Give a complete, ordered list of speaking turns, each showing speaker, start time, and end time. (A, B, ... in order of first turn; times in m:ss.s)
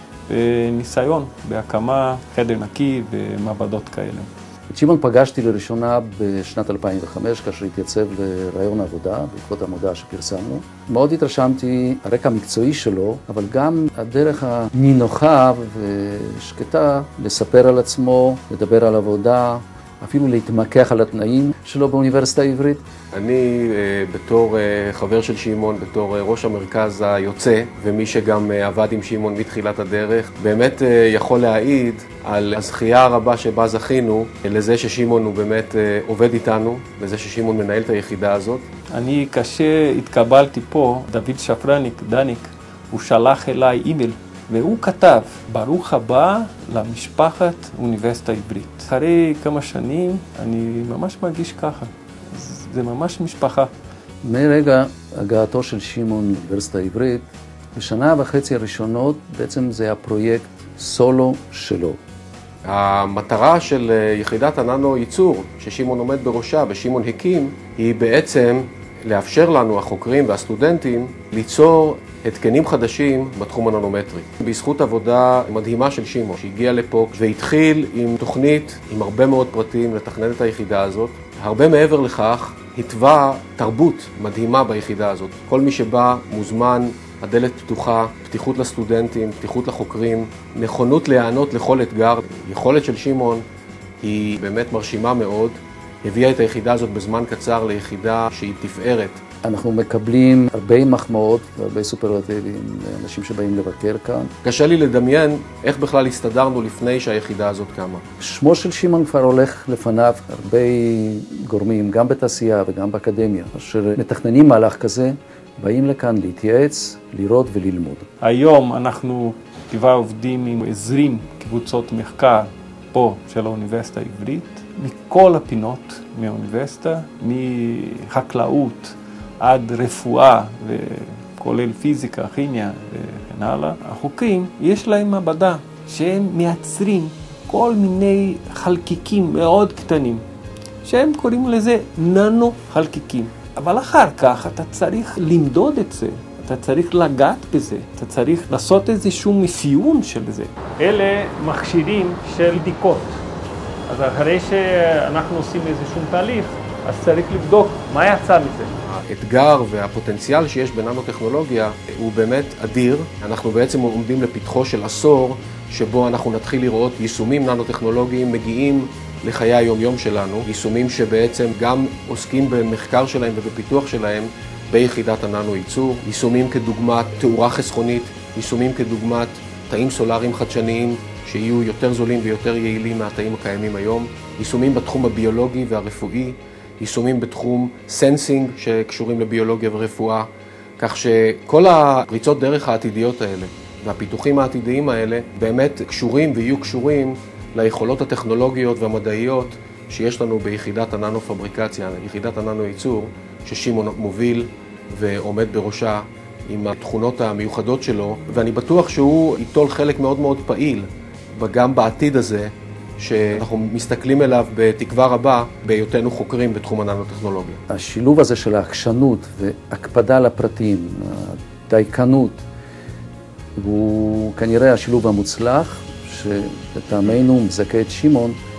0:00.3-0:04.3 A
0:04.7-0:22.8 B
0:23.1-0:38.6 C
0:38.9-0:53.7 A
0:54.2-1:02.0 B
1:02.7-1:33.4 C
1:34.0-1:39.2 C
1:39.4-1:44.3 B
1:44.4-1:48.0 C
1:48.2-1:58.1 B
1:58.2-2:20.2 A
2:20.8-2:33.2 A
2:33.9-2:38.7 A
2:38.9-3:37.6 C
3:37.7-3:42.4 B
3:43.6-3:48.4 B